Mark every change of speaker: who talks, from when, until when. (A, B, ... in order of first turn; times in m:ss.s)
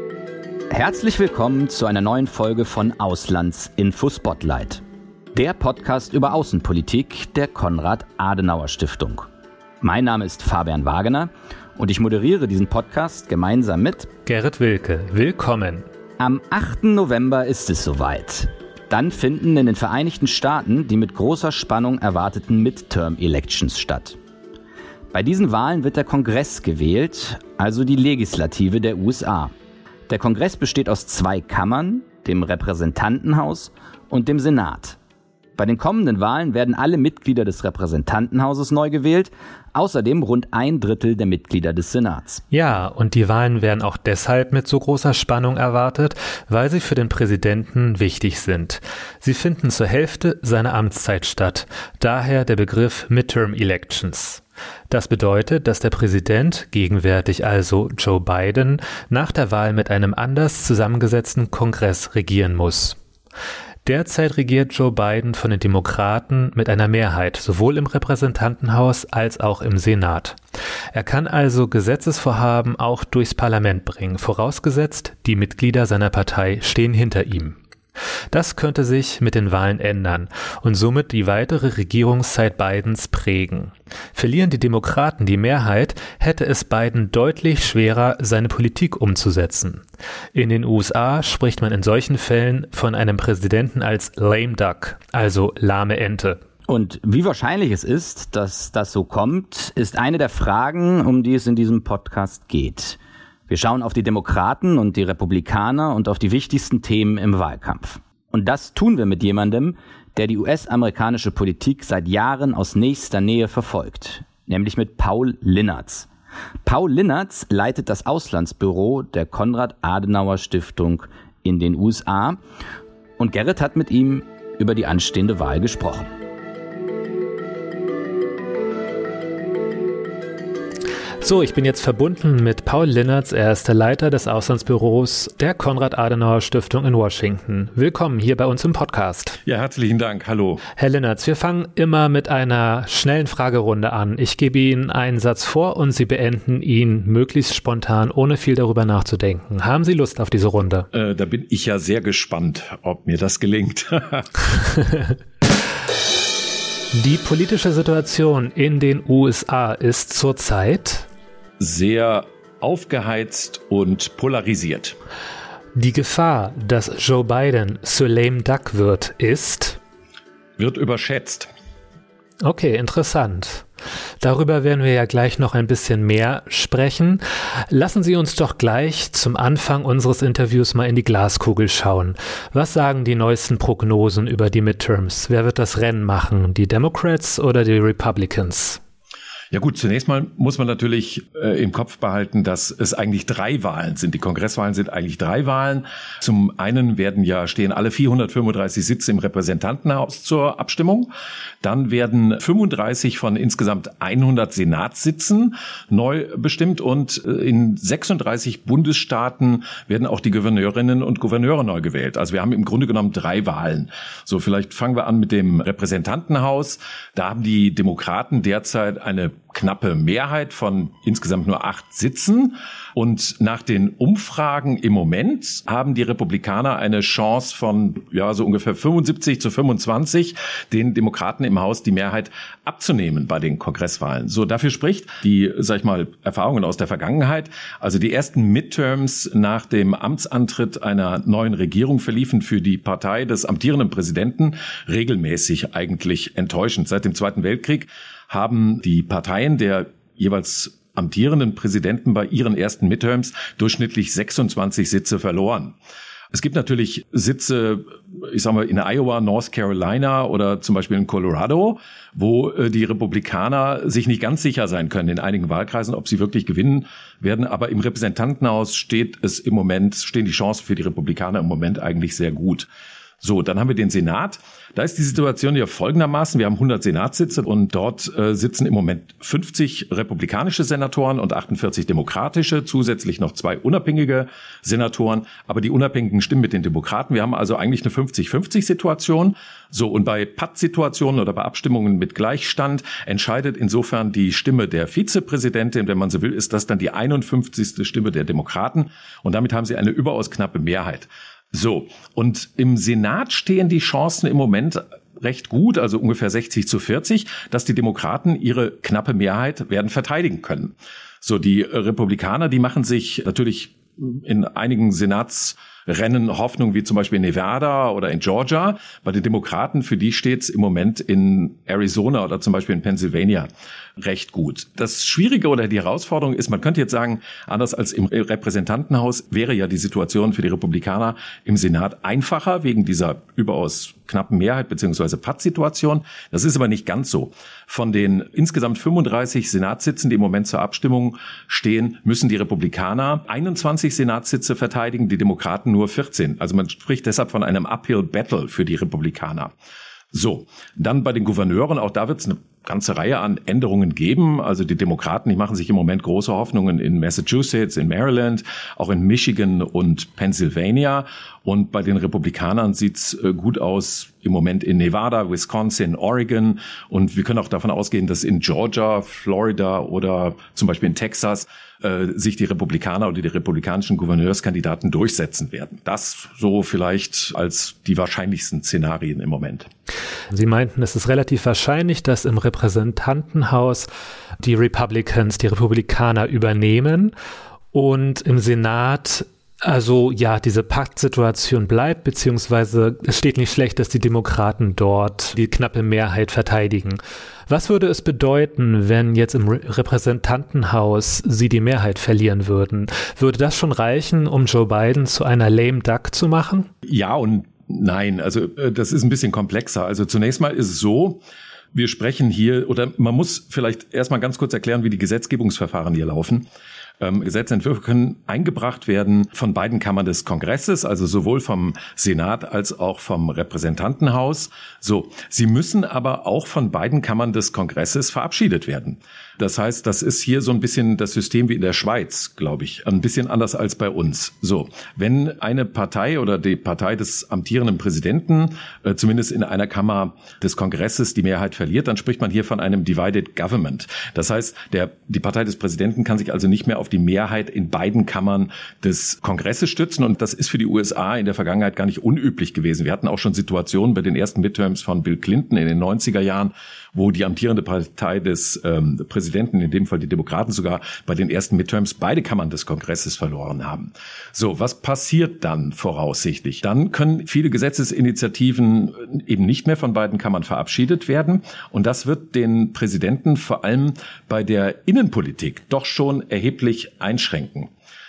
0:00.7-0:04.8 A
0:05.3-0:09.3 A
0:09.8-0:14.1 A
0:14.3-0:15.9 B
0:16.2-0:24.2 A
0:25.1-0:29.5 A
0:30.1-0:35.0 A
0:35.6-0:42.4 A
0:42.5-1:03.0 B
1:03.8-1:10.4 B
1:10.9-1:17.6 B
1:18.3-1:29.8 B
1:30.3-1:36.4 B
1:36.7-1:56.1 A
1:56.6-2:02.4 A
2:03.2-2:06.1 A
2:11.2-2:19.4 B
2:19.4-2:20.6 C
2:20.8-2:30.9 B
2:30.9-2:34.3 C
2:36.9-2:41.1 B
2:41.6-2:45.0 C
2:45.8-2:49.8 B
2:50.6-2:51.5 C
2:52.4-2:53.7 B
2:54.2-3:08.8 B
3:09.5-3:21.1 C
3:21.6-4:15.8 C
4:16.3-4:32.7 C
4:33.2-5:49.5 C
5:50.1-6:19.7 C
6:20.3-6:23.9 B
6:24.4-6:27.1 B
6:27.7-6:46.7 B
6:46.8-6:51.2 C
6:51.7-6:56.5 C
6:57.0-7:57.7 C